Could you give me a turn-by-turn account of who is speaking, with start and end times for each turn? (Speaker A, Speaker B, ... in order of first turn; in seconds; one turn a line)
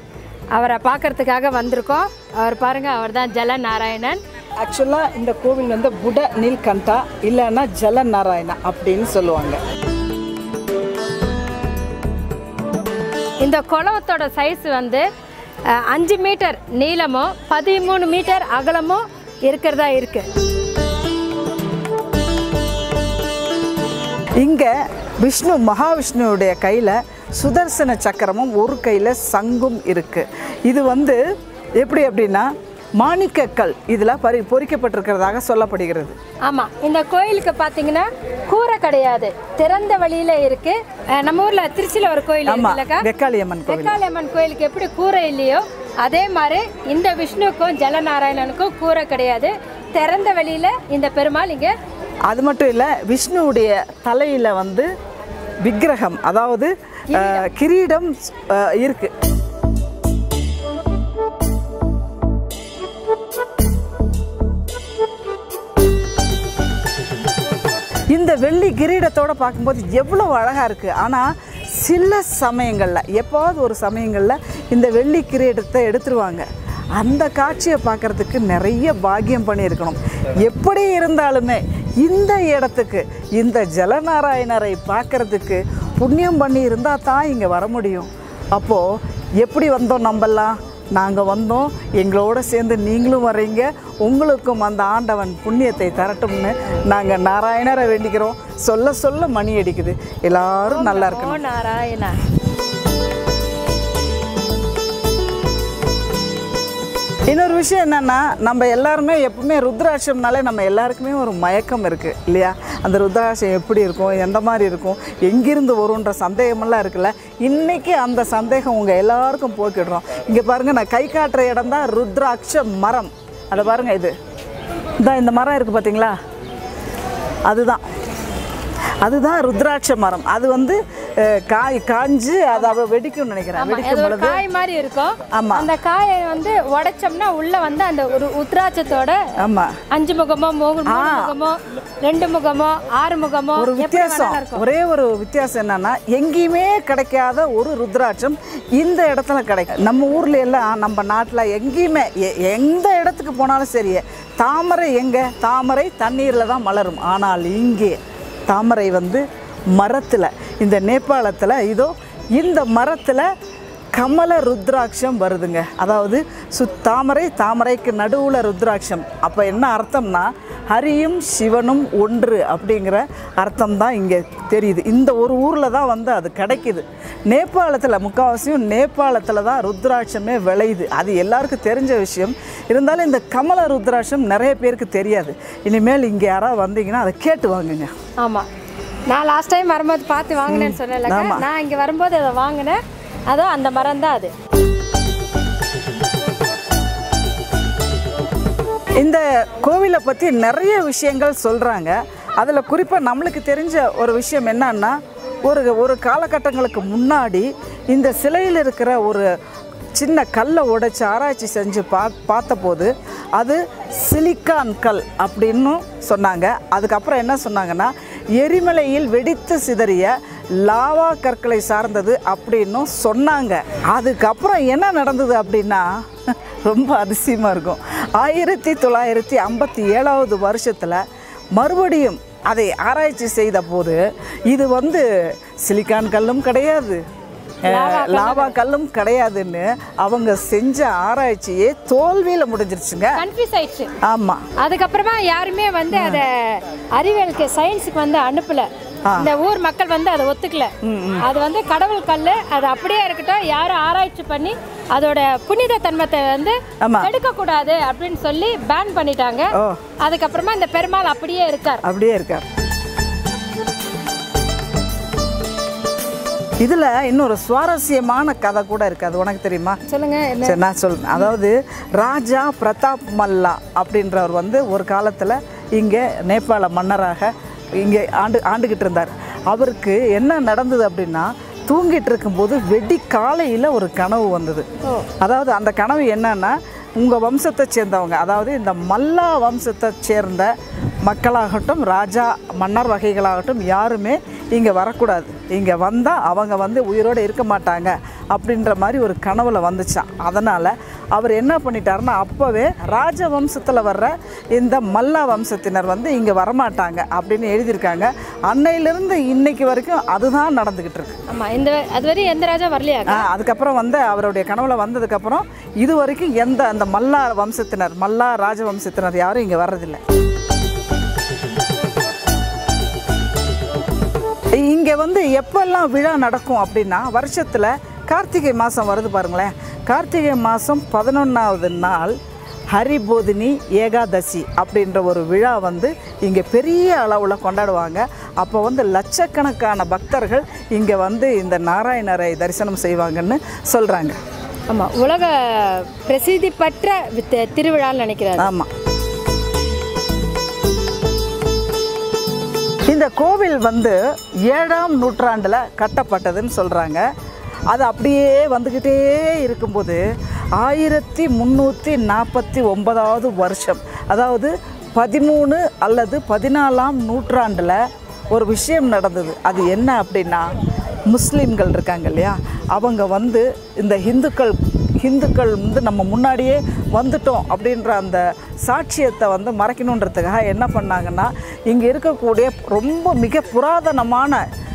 Speaker A: 0.5-4.2
Speaker B: 4.6-9.6
Speaker A: 13.4-15.0
Speaker A: 15.8-20.2
Speaker B: 24.4-31.2
Speaker B: 31.8-32.5
Speaker B: 33.0-36.1
Speaker A: 36.5-43.0
Speaker B: 42.4-44.0
Speaker A: 43.7-51.7
Speaker B: 52.3-54.9
Speaker B: 55.6-59.1
Speaker A: 57.1-57.4
Speaker B: 68.1-88.9
Speaker B: 89.4-101.4
Speaker A: 100.7-102.2
Speaker B: 107.3-124.1
Speaker B: 125.0-126.1
Speaker B: 127.5-127.8
Speaker B: 129.0-134.4
Speaker A: 133.6-139.2
Speaker B: 135.3-135.7
Speaker B: 139.4-139.7
Speaker A: 139.9-144.6
Speaker B: 140.8-141.3
Speaker B: 143.6-163.3
Speaker B: 163.9-187.9
Speaker A: 188.2-188.4
Speaker A: 189.1-194.3
Speaker B: 190.5-191.4
Speaker B: 199.0-209.3
Speaker B: 209.9-231.0
Speaker B: 231.5-235.0
Speaker B: 235.6-237.0
Speaker A: 237.7-238.6
Speaker B: 237.7-243.2
Speaker A: 243.2-243.9
Speaker B: 244.0-244.4
Speaker A: 244.6-261.8
Speaker B: 245.9-246.2
Speaker B: 250.8-251.2
Speaker B: 256.8-257.1
Speaker B: 261.8-262.4
Speaker B: 266.6-269.8
Speaker A: 269.9-270.6
Speaker B: 270.4-284.6
Speaker B: 285.2-290.5
Speaker B: 291.0-311.2
Speaker A: 311.3-313.2
Speaker B: 313.1-320.0
Speaker B: 324.6-332.1
Speaker B: 332.7-344.2
Speaker A: 344.7-348.5
Speaker B: 348.4-348.7
Speaker B: 352.9-357.0
Speaker B: 357.7-360.0
Speaker B: 360.6-367.8
Speaker B: 368.3-370.5
Speaker B: 371.1-384.4